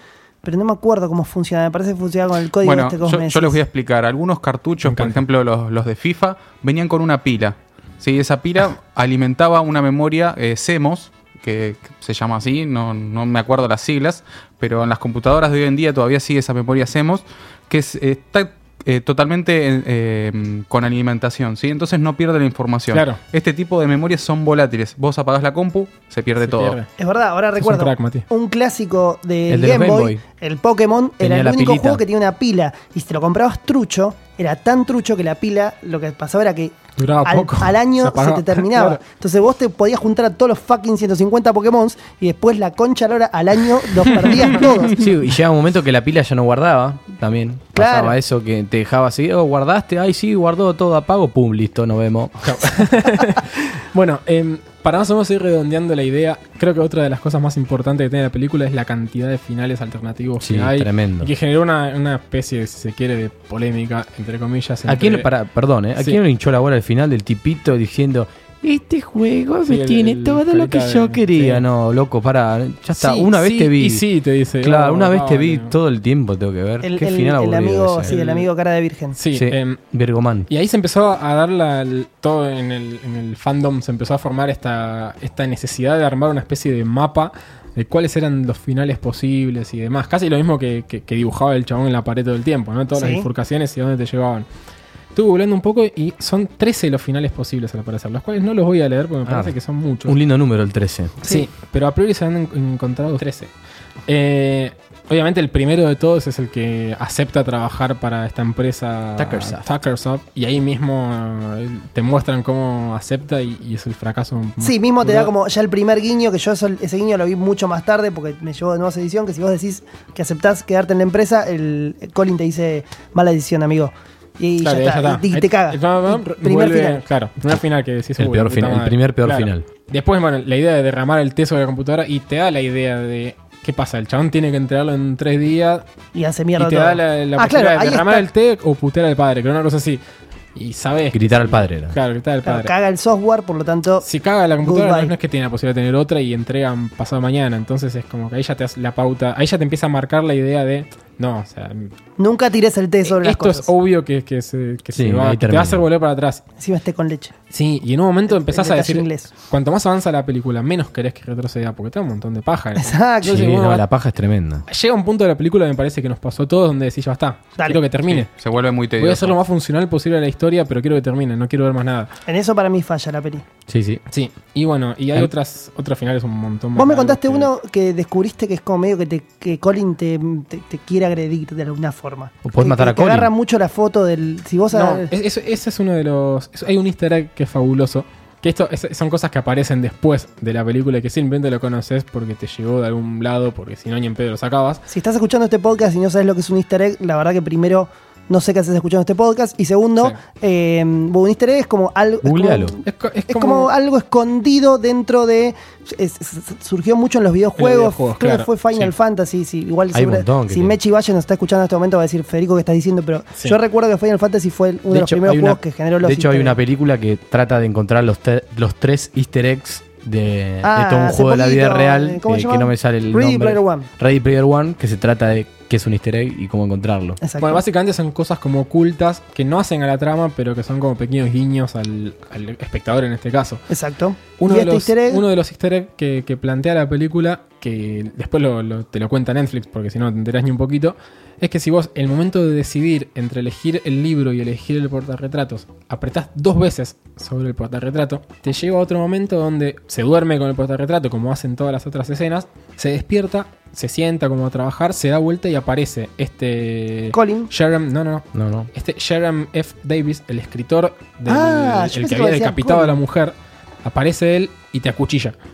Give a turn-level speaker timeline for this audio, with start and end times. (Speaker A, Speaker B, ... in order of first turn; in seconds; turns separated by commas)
Speaker A: 0.4-3.6, Speaker B: 2.6-26.8, Speaker C: 4.8-5.2, Speaker C: 22.9-23.2, Speaker C: 26.4-26.9, Speaker A: 27.0-45.0, Speaker C: 27.6-28.3, Speaker D: 29.5-30.2, Speaker D: 31.2-32.0, Speaker C: 37.0-39.0, Speaker D: 44.9-52.7, Speaker A: 47.8-48.2, Speaker C: 52.4-65.3, Speaker D: 60.4-61.3, Speaker D: 64.9-74.0, Speaker C: 69.7-71.6, Speaker C: 73.0-75.8, Speaker D: 74.6-78.2, Speaker A: 76.8-79.2, Speaker C: 78.1-78.5, Speaker C: 79.2-79.8, Speaker D: 79.3-80.5, Speaker C: 80.5-94.5, Speaker A: 93.0-93.3, Speaker C: 95.2-100.2, Speaker D: 99.3-101.2, Speaker C: 101.2-103.5, Speaker C: 104.1-115.3, Speaker D: 109.2-109.7, Speaker A: 114.6-127.0, Speaker C: 124.6-135.9, Speaker D: 128.2-129.7, Speaker A: 136.1-138.3, Speaker C: 136.6-140.0, Speaker C: 140.6-142.7, Speaker D: 141.1-142.0, Speaker A: 142.4-144.1, Speaker C: 144.0-151.9, Speaker A: 144.6-145.1, Speaker A: 152.2-153.7, Speaker C: 153.1-156.4, Speaker D: 154.9-155.8, Speaker A: 156.6-157.3, Speaker C: 157.5-163.8, Speaker A: 158.3-159.3, Speaker A: 162.8-163.6, Speaker D: 163.2-164.7, Speaker C: 164.7-168.3, Speaker B: 168.1-169.3, Speaker C: 169.0-172.1, Speaker A: 172.3-173.4, Speaker D: 173.7-174.0, Speaker C: 174.1-177.5, Speaker A: 176.8-185.1, Speaker D: 182.4-183.3, Speaker C: 184.7-194.8, Speaker A: 194.9-216.6, Speaker D: 202.2-202.8, Speaker C: 202.8-203.7, Speaker C: 207.6-208.9, Speaker D: 209.9-210.8, Speaker D: 214.9-227.2, Speaker A: 220.6-223.9, Speaker A: 227.2-227.6, Speaker C: 227.4-233.6, Speaker A: 233.7-235.2, Speaker C: 234.4-265.4, Speaker A: 257.1-257.5, Speaker D: 258.3-258.7, Speaker A: 261.3-263.0